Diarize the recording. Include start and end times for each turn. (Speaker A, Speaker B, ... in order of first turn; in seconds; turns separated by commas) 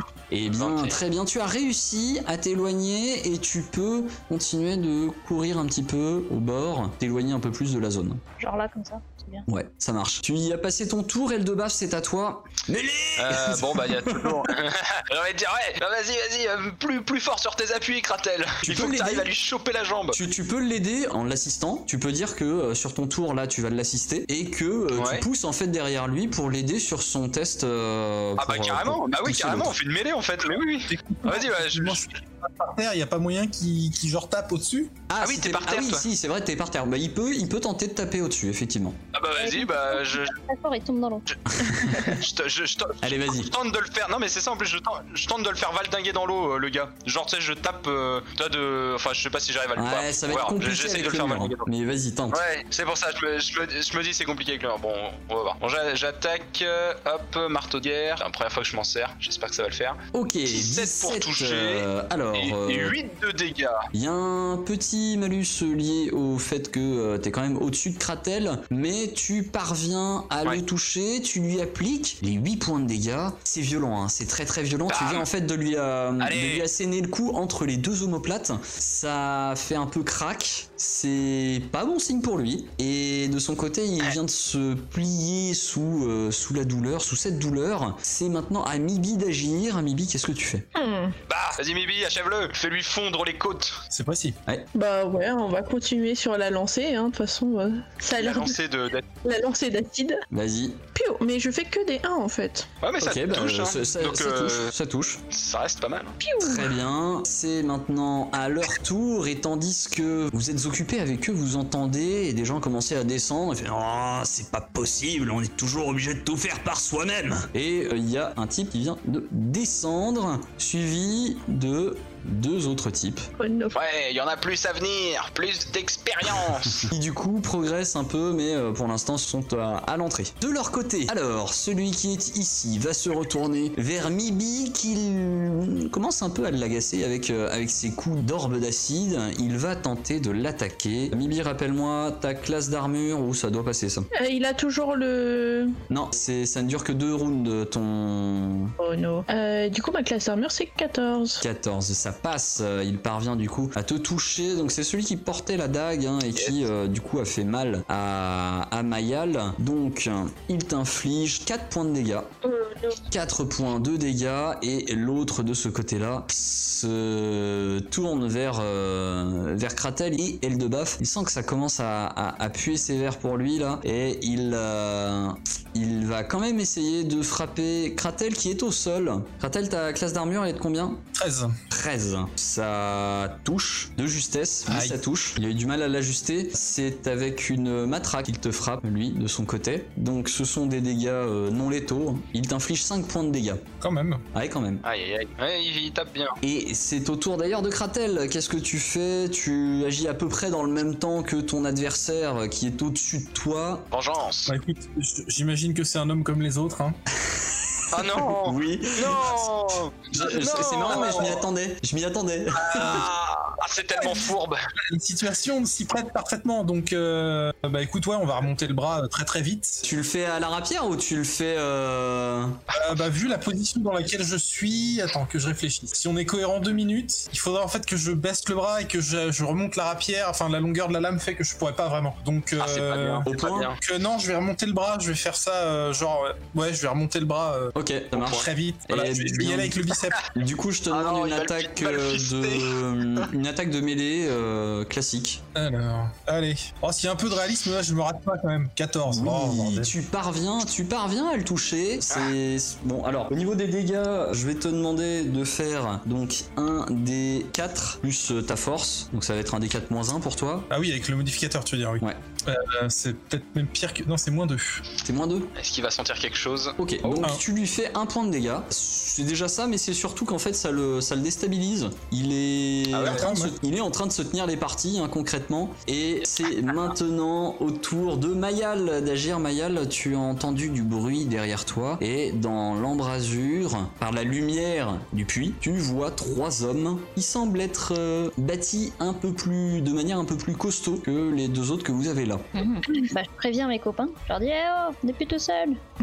Speaker A: 0.3-8.2, Speaker B: 0.6-1.0, Speaker C: 8.4-9.5, Speaker A: 9.5-14.5, Speaker B: 13.2-20.2, Speaker A: 18.6-19.3, Speaker A: 20.1-29.7, Speaker B: 24.9-25.2, Speaker B: 28.4-32.0, Speaker D: 30.9-35.0, Speaker A: 35.1-39.0, Speaker B: 35.2-36.0, Speaker B: 39.1-40.4, Speaker C: 39.4-41.3, Speaker B: 41.3-51.7, Speaker A: 41.6-42.2, Speaker A: 43.0-43.5, Speaker A: 49.8-52.4, Speaker B: 52.3-63.9, Speaker A: 60.1-63.0, Speaker A: 63.9-90.6, Speaker B: 74.9-75.2, Speaker B: 76.2-76.7, Speaker E: 90.7-91.2, Speaker B: 91.3-93.8, Speaker D: 93.9-94.4, Speaker E: 94.7-98.6, Speaker B: 98.2-99.1, Speaker E: 99.2-100.2, Speaker A: 100.3-100.8, Speaker E: 100.9-102.7, Speaker B: 102.8-104.7, Speaker A: 103.0-105.2, Speaker B: 105.3-106.2, Speaker E: 106.2-106.7, Speaker A: 106.4-123.3, Speaker E: 123.4-123.8, Speaker B: 123.7-126.9, Speaker A: 126.8-144.1, Speaker E: 144.1-145.8, Speaker A: 145.9-148.7, Speaker E: 148.8-151.4, Speaker A: 151.4-162.3, Speaker E: 162.4-163.0, Speaker A: 163.1-181.0, Speaker D: 181.2-181.6, Speaker A: 181.7-193.6, Speaker D: 184.7-185.0, Speaker D: 193.8-194.2, Speaker A: 194.3-194.8, Speaker B: 194.8-196.4, Speaker A: 196.4-203.9, Speaker B: 203.9-204.5, Speaker D: 204.5-207.0, Speaker A: 207.2-209.5, Speaker B: 207.9-211.4, Speaker A: 210.1-213.1, Speaker D: 210.2-211.4, Speaker D: 212.6-213.1, Speaker B: 212.7-214.6, Speaker D: 213.9-214.3, Speaker D: 214.8-219.8, Speaker A: 219.8-222.6, Speaker B: 222.7-223.0, Speaker D: 222.7-240.3, Speaker B: 232.6-233.8, Speaker A: 233.3-233.7, Speaker A: 237.7-245.4, Speaker B: 240.9-243.3, Speaker D: 245.6-249.9, Speaker A: 249.1-260.7, Speaker D: 260.7-264.8, Speaker A: 265.0-265.5, Speaker B: 265.6-267.3, Speaker A: 266.8-292.7, Speaker B: 272.9-273.3, Speaker D: 273.1-273.6, Speaker C: 292.6-295.8